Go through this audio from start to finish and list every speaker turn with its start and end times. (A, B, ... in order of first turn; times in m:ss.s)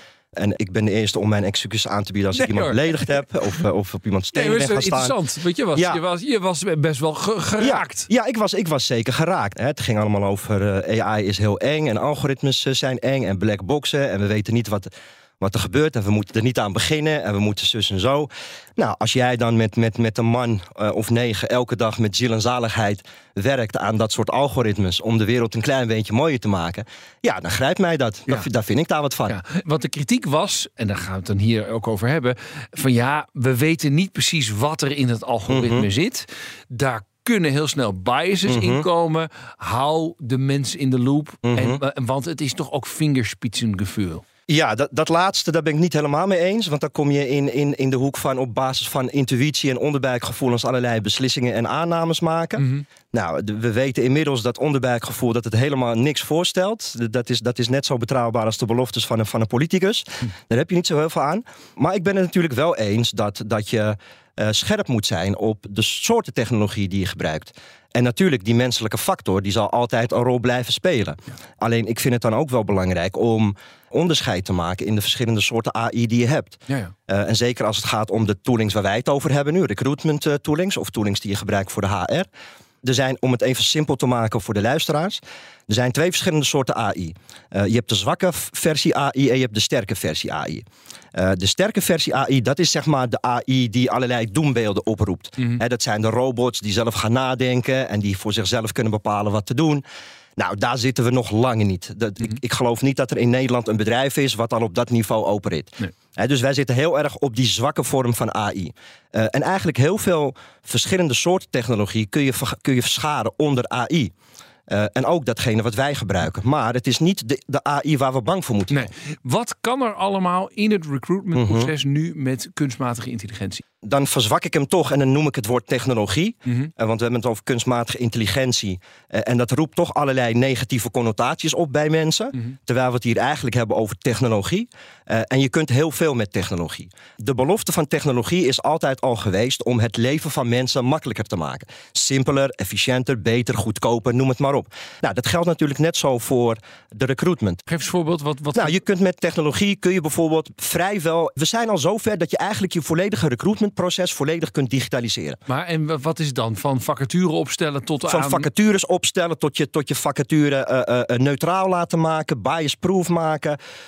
0:00.4-0:05.2 A
0:02.3-0:03.2 B
0:04.3-0:08.1 B
0:05.7-0:06.0 A
0:07.6-0:29.4 A
0:29.3-0:44.2 B
0:35.5-0:35.9 A
0:38.5-0:38.8 A
0:41.4-0:41.8 A
0:44.5-1:22.3 A
0:52.6-0:52.8 B
1:22.8-1:30.6 A
1:31.2-1:39.8 A
1:40.4-1:54.1 A
1:54.7-1:58.8 A
1:58.7-2:03.6 B
2:01.3-2:01.7 A
2:03.8-2:27.6 A
2:06.4-2:06.7 B
2:27.7-2:28.8 B
2:28.5-2:35.4 A
2:35.5-2:38.5 B
2:38.1-2:43.6 A